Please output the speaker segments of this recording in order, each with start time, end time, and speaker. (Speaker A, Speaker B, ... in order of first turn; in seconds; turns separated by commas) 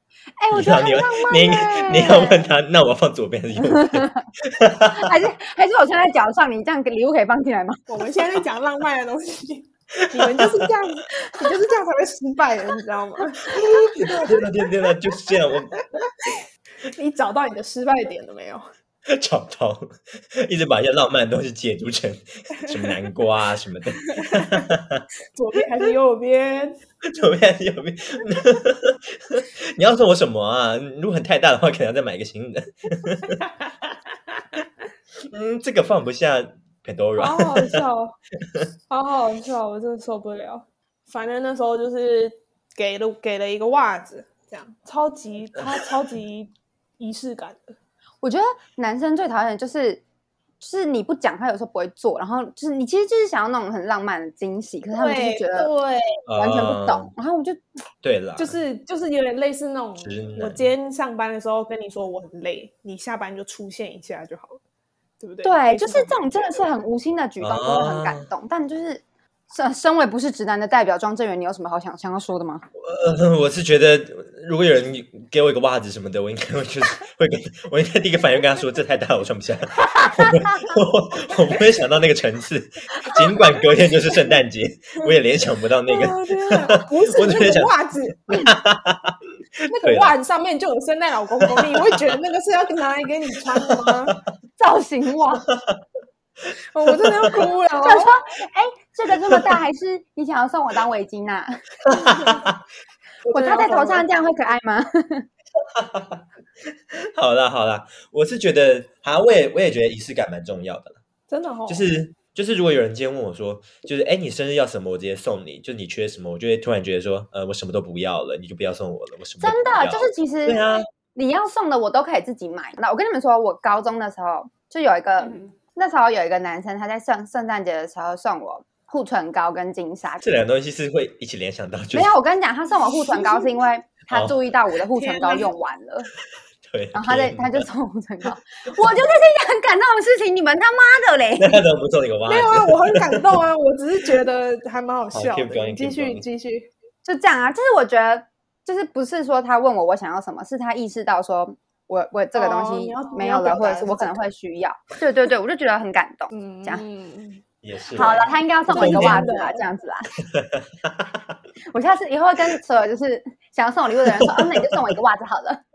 Speaker A: 0.4-2.5, Speaker B: 0.5-5.1, Speaker A: 3.7-4.3, Speaker A: 4.8-7.8, Speaker C: 7.9-14.9, Speaker B: 10.1-10.7, Speaker A: 11.3-11.5, Speaker B: 13.6-15.8, Speaker C: 15.8-18.7, Speaker B: 19.1-25.1, Speaker C: 22.6-22.9, Speaker C: 24.1-24.7, Speaker C: 25.4-26.8, Speaker B: 27.0-33.4, Speaker B: 35.3-37.8, Speaker C: 37.2-38.2, Speaker C: 38.9-47.8, Speaker A: 48.2-50.0, Speaker A: 50.6-55.7, Speaker C: 55.0-56.2, Speaker B: 56.3-57.1, Speaker A: 56.4-57.6, Speaker B: 58.0-58.6, Speaker C: 58.4-64.6, Speaker B: 60.0-60.7, Speaker C: 65.2-66.7, Speaker A: 65.4-72.7, Speaker B: 67.4-68.3, Speaker B: 72.8-87.7, Speaker A: 80.0-80.7, Speaker C: 85.9-88.2, Speaker B: 88.3-89.2, Speaker C: 89.6-94.2, Speaker B: 89.8-90.1, Speaker B: 91.4-92.2, Speaker B: 93.5-94.2, Speaker A: 94.6-95.5, Speaker B: 95.5-95.8, Speaker C: 96.7-98.2, Speaker B: 97.0-97.5, Speaker A: 97.8-101.6, Speaker B: 99.3-99.6, Speaker B: 101.8-102.6, Speaker C: 103.2-104.1, Speaker A: 103.3-105.3, Speaker B: 105.6-106.2, Speaker B: 106.9-111.0, Speaker C: 111.3-111.9, Speaker B: 111.7-120.9, Speaker A: 119.4-130.2, Speaker C: 125.2-125.5, Speaker B: 130.2-132.1, Speaker A: 131.9-136.1, Speaker C: 132.9-133.5, Speaker B: 134.1-134.4, Speaker C: 134.9-135.5, Speaker B: 136.7-137.7, Speaker A: 136.9-141.6, Speaker B: 141.4-143.4, Speaker C: 142.3-146.7, Speaker B: 145.1-146.3, Speaker A: 147.1-156.8, Speaker C: 152.3-154.2, Speaker C: 156.3-157.4, Speaker B: 157.6-159.3, Speaker A: 158.0-160.1, Speaker C: 158.0-159.6, Speaker B: 160.2-161.4, Speaker A: 161.7-165.6, Speaker B: 164.2-164.8